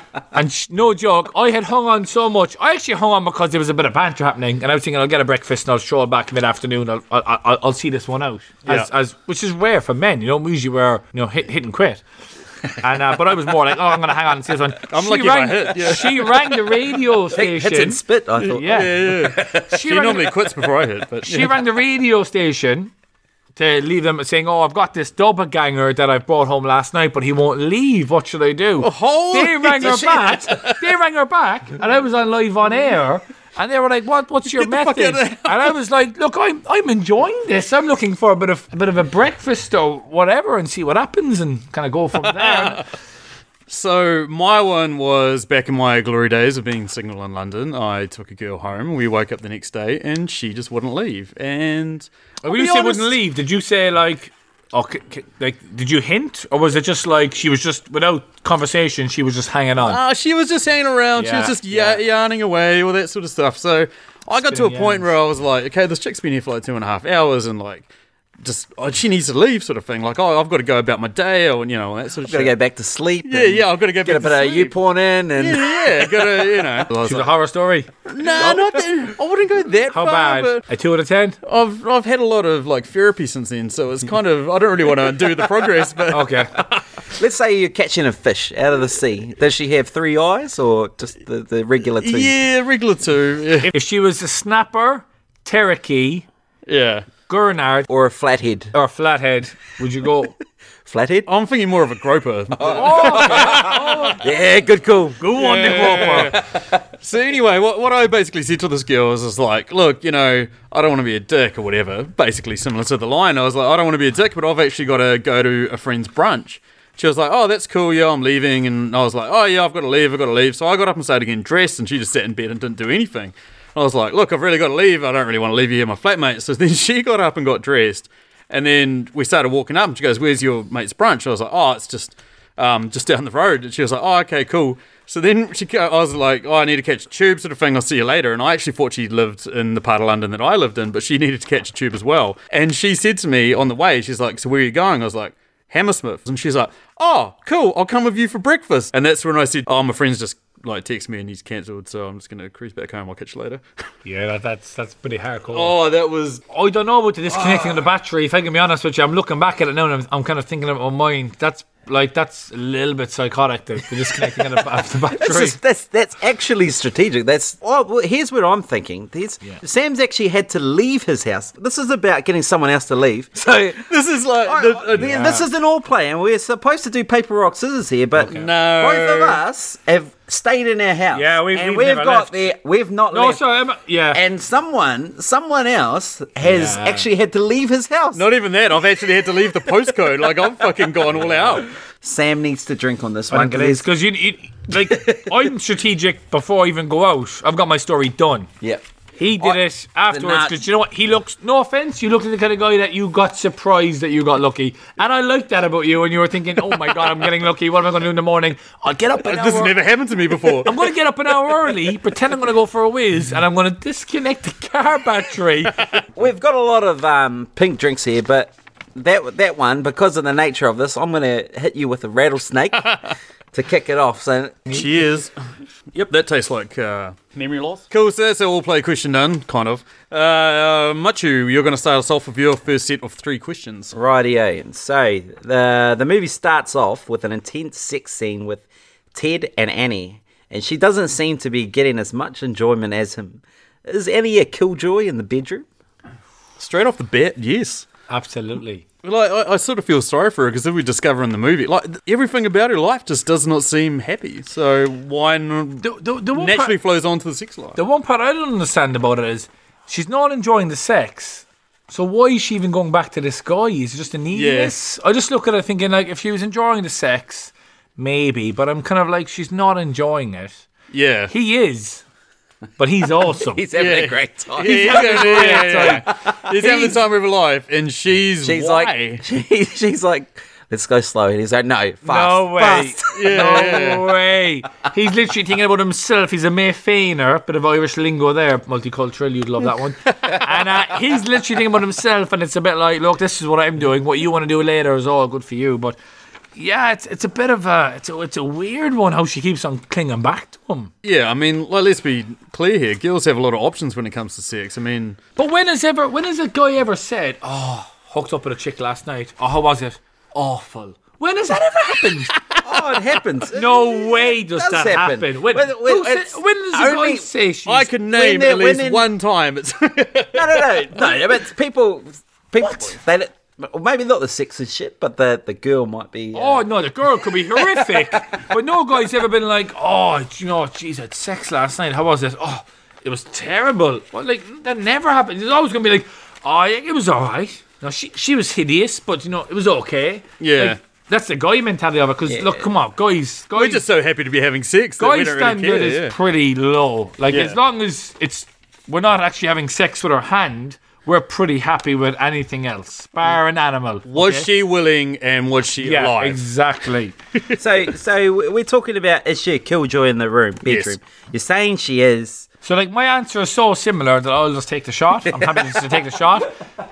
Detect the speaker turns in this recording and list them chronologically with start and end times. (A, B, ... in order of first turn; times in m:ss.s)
0:00.3-0:12.0 A
0:12.8-0:20.4 A
0:14.9-0:16.4 B
0:17.3-0:19.4 C
0:18.4-0:21.6 B
0:21.2-0:22.9 A
0:23.6-0:42.8 A
0:28.8-0:30.7 B
0:29.8-0:30.5 C
0:34.5-0:35.7 B
0:42.3-0:42.7 B
0:43.7-0:53.1 B
0:52.4-1:00.0 A
0:59.8-1:07.9 B
1:01.2-1:02.0 A
1:04.4-1:05.1 A
1:08.4-1:12.5 B
1:12.2-1:16.5 C
1:13.2-1:14.7 B
1:15.4-1:17.3 B
1:17.0-1:18.6 A
1:18.1-1:20.6 B
1:19.9-1:21.4 A
1:21.4-1:26.7 B
1:26.1-1:26.6 A
1:27.1-1:32.3 C
1:32.0-1:33.7 B
1:33.7-1:36.3 A
1:36.7-1:37.1 B
1:37.3-1:37.9 A
1:37.9-1:38.7 C
1:38.7-1:40.4 A
1:40.8-1:41.3 C
1:41.3-1:43.8 B
1:42.6-1:45.3 C
1:42.6-1:44.2 A
1:45.2-1:46.4 A
1:45.3-2:33.6 B
2:34.0-2:35.7 A
2:35.5-2:36.4 B
2:36.5-2:45.6 A
2:37.4-2:37.7 B
2:45.1-2:53.8 C
2:53.9-2:55.4 B
2:54.4-3:03.4 C
2:55.0-2:55.4 A
2:58.2-2:58.4 A
2:58.2-2:59.4 B
3:01.1-3:02.5 A
3:03.1-3:04.2 A
3:04.1-3:08.2 C
3:06.4-3:07.1 A
3:08.1-3:11.7 B
3:11.2-3:13.8 C
3:13.3-3:18.5 A
3:14.9-3:15.4 C
3:19.2-3:29.7 A
3:19.4-3:20.6 C
3:29.2-3:30.9 B
3:30.6-3:35.8 A
3:35.8-3:36.0 B
3:36.1-3:44.8 C
3:44.7-3:45.3 B
3:45.9-3:53.9 B
3:53.9-4:05.7 C
4:06.6-4:07.8 B
4:08.1-4:08.8 A
4:09.0-4:17.8 B
4:15.8-4:16.8 A
4:17.8-4:30.7 A
4:24.3-4:24.7 B
4:30.9-4:31.3 B
4:31.3-4:32.0 A
4:32.8-4:33.6 A
4:33.4-4:37.0 C
4:33.7-4:39.2 B
4:34.6-4:36.0 A
4:36.6-4:36.9 A
4:38.4-4:43.5 C
4:42.0-4:56.0 A
4:43.1-4:44.1 B
4:56.6-5:00.9 A
5:01.0-5:05.2 B
5:05.4-5:12.4 A
5:12.6-5:17.3 C
5:13.5-5:17.9 A
5:17.7-5:21.2 B
5:18.1-5:19.1 C
5:20.3-5:26.6 C
5:22.6-5:22.9 A
5:26.3-5:43.8 A
5:27.4-5:28.2 C
5:40.4-5:40.8 B
5:42.3-5:42.7 C
5:43.6-5:46.1 B
5:45.0-5:54.5 A
5:47.3-5:47.6 B
5:54.1-5:56.4 B
5:55.8-5:57.1 A
5:57.6-6:02.5 C
6:00.7-6:00.9 B
6:02.6-6:06.5 A
6:05.2-6:05.8 C